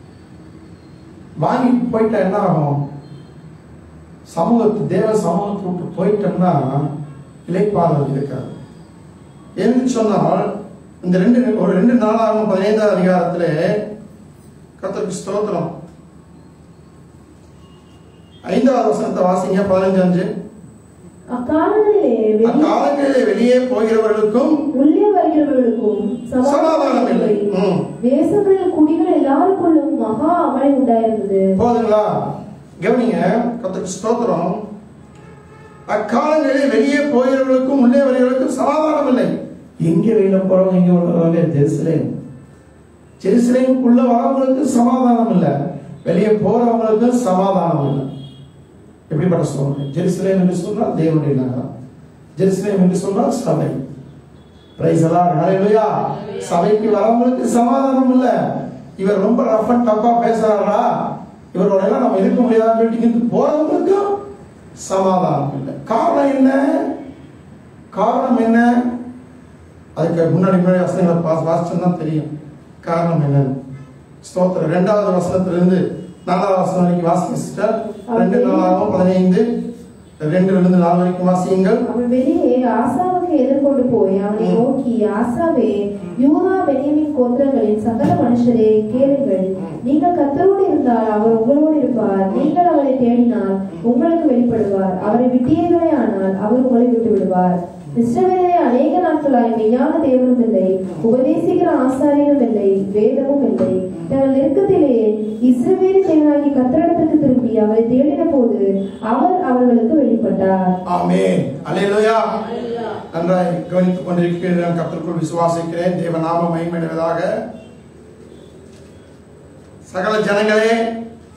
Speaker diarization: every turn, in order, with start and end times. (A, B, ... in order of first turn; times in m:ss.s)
0:01.4-0:02.8 A
0:04.3-0:06.9 A
0:07.5-0:08.5 A
0:09.6-0:10.5 A
0:11.0-0:13.8 A
0:14.8-0:15.7 A
0:18.5-0:20.3 A
0:21.3-0:22.8 B
0:22.4-0:24.6 A
0:24.7-0:31.5 B
0:26.4-0:27.9 A
0:31.6-0:34.6 A
0:35.9-0:39.3 A
0:39.8-0:42.1 A
0:43.2-0:45.5 A
0:46.0-0:48.1 A
0:49.1-0:51.7 A
0:52.4-0:53.8 A
0:54.8-1:04.1 A
1:04.8-1:07.0 A
1:07.9-1:08.7 A
1:10.0-1:12.3 A
1:12.8-1:13.6 A
1:14.2-1:19.5 A
1:18.1-1:18.8 B
1:20.2-1:21.8 A
1:21.9-1:50.7 B
1:24.4-1:24.6 A
1:50.9-1:52.4 A
1:53.1-1:57.3 A
1:59.9-2:00.9 A